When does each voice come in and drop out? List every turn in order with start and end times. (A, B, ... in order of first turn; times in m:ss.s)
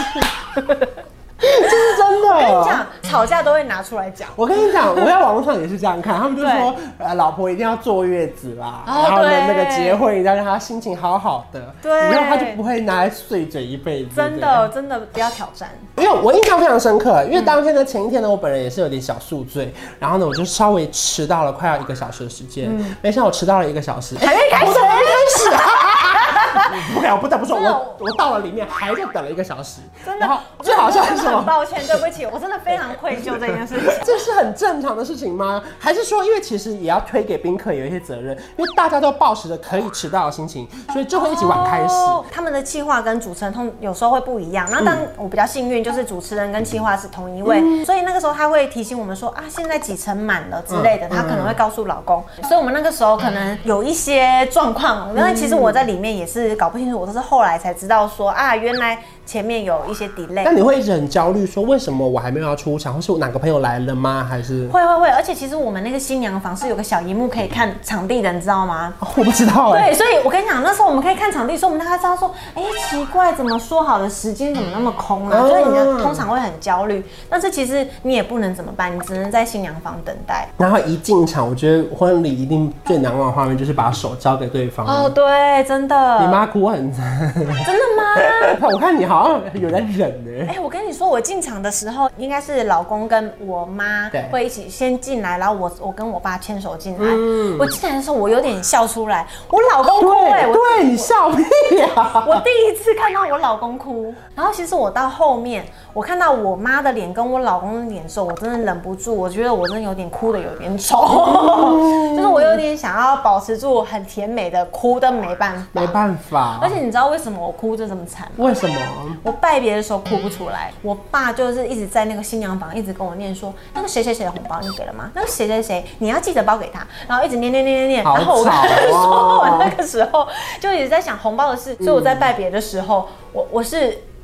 0:01.4-0:02.8 A
0:01.6-0:05.1 B
0:04.4-0:14.7 A
0:06.4-0:06.7 B
0:08.8-0:10.0 B
0:11.8-0:12.6 B
0:14.1-0:15.9 B
0:16.0-0:32.0 A
0:22.6-0:22.9 B
0:24.2-0:26.8 B
0:27.5-0:28.0 B
0:30.0-0:34.2 B
0:33.1-0:42.2 A
0:41.1-1:00.5 B
0:47.4-0:47.8 A
0:50.7-0:51.6 A
0:55.1-0:55.8 A
1:00.4-1:04.7 A
1:04.7-1:09.0 B
1:09.0-1:09.9 A
1:09.7-1:20.5 B
1:15.3-1:16.3 A
1:20.6-1:25.1 A
1:24.8-1:26.4 B
1:26.2-1:27.7 A
1:27.6-1:28.6 B
1:28.2-1:30.5 A
1:30.4-1:41.1 B
1:37.0-1:37.7 A
1:39.9-1:42.4 A
1:42.2-1:56.0 B
1:51.1-1:52.6 A
1:55.7-1:56.8 A
1:56.6-1:58.5 B
1:58.4-1:59.2 A
1:59.2-2:14.0 B
2:08.0-2:09.8 A
2:11.8-2:12.3 A